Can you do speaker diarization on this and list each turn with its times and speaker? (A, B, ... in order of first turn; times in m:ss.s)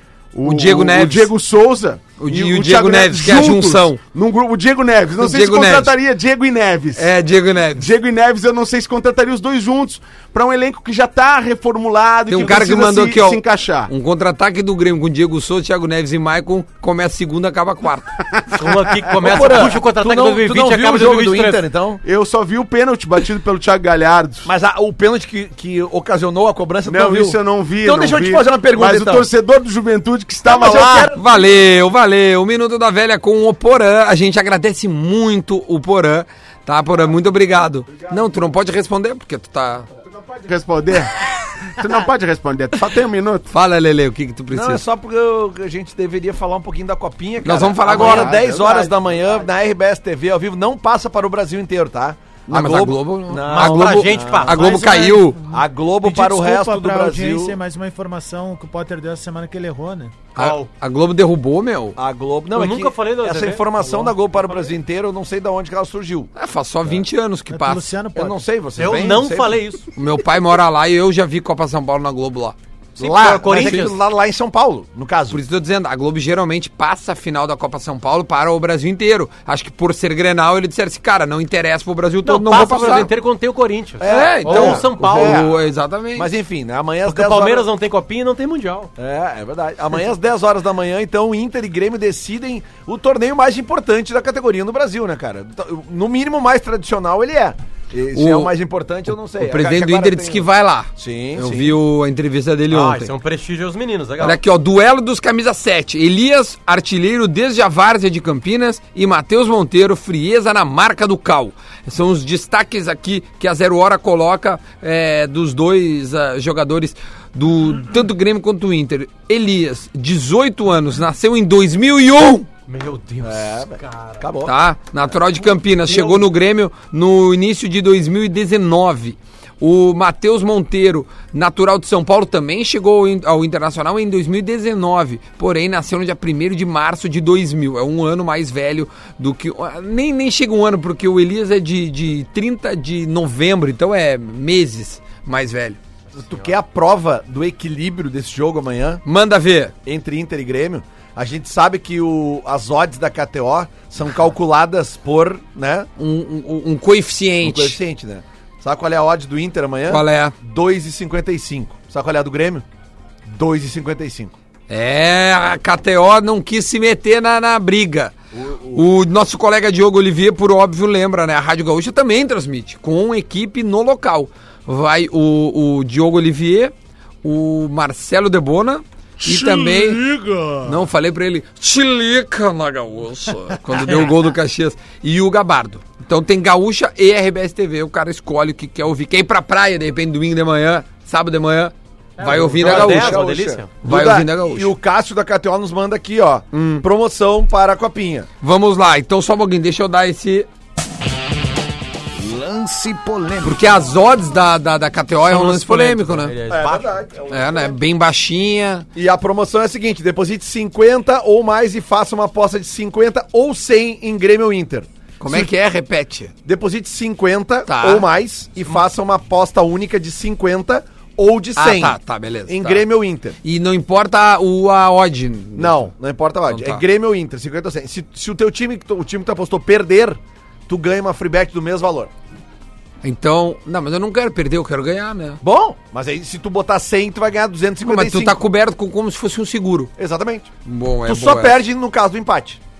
0:00.3-0:07.1 A
0:00.4-0:01.3 B
0:02.2-0:04.0 B
0:05.2-0:05.9 B
0:06.9-0:07.9 B
0:07.8-0:13.9 A
0:12.3-0:18.2 B
0:18.4-0:18.9 A
0:18.6-0:21.6 C
0:19.2-0:22.0 D
0:22.0-0:24.5 A
0:24.4-0:29.3 D
0:26.8-0:31.1 A
0:30.4-0:31.5 D
0:31.1-0:39.9 B
0:40.0-0:43.5 A
0:43.5-0:44.8 B
0:44.5-0:54.8 D
0:47.4-0:48.4 B
0:47.9-0:49.0 A
0:52.5-0:55.4 B
0:53.4-0:55.2 C
0:54.6-1:00.1 E
0:55.5-0:57.6 D
1:00.3-1:00.7 C
1:00.3-1:02.0 B
1:02.0-1:06.3 D
1:02.5-1:04.6 C
1:06.4-1:07.9 B
1:07.5-1:08.4 E
1:08.1-1:09.6 D
1:08.8-1:09.9 C
1:09.9-1:13.8 B
1:13.0-1:14.0 C
1:13.0-1:15.4 D
1:15.3-1:23.1 B
1:22.2-1:25.5 C
1:24.0-1:27.7 D
1:24.0-1:26.3 B
1:27.0-1:28.9 C
1:29.0-1:41.7 D
1:38.1-1:38.5 B
1:39.4-1:43.1 B
1:42.7-1:44.4 C
1:44.2-2:02.5 B
2:02.7-2:04.3 C
2:03.2-2:04.6 D
2:04.4-2:25.8 B
2:05.5-2:06.2 C
2:26.1-2:26.5 C
2:26.2-2:29.0 D
2:29.0-2:29.7 B
2:29.8-2:35.9 D
2:36.0-2:37.8 B
2:37.4-2:42.6 D
2:39.9-2:40.3 B
2:43.2-2:44.3 D
2:44.7-2:48.1 B
2:48.3-2:48.8 D
2:48.7-3:13.2 B
2:59.3-3:00.7 E
3:03.8-3:04.1 C
3:12.2-3:13.7 C
3:12.6-3:18.3 D
3:13.8-3:14.7 B
3:16.5-3:16.8 B
3:18.4-3:20.5 B
3:22.2-3:23.6 D
3:23.4-3:26.3 B
3:25.2-3:27.0 C
3:26.5-3:27.8 D
3:27.3-3:28.8 B
3:28.9-3:35.5 D
3:35.2-3:36.3 B
3:36.4-3:43.4 D
3:37.7-3:38.1 B
3:41.6-3:42.9 B
3:43.4-3:45.9 B
3:45.6-3:52.1 D
3:46.5-3:46.8 B
3:53.0-3:55.4 B
3:55.4-3:58.4 D
3:57.8-3:59.9 B
4:00.0-4:00.5 D
4:00.6-4:01.6 B
4:01.0-4:02.6 D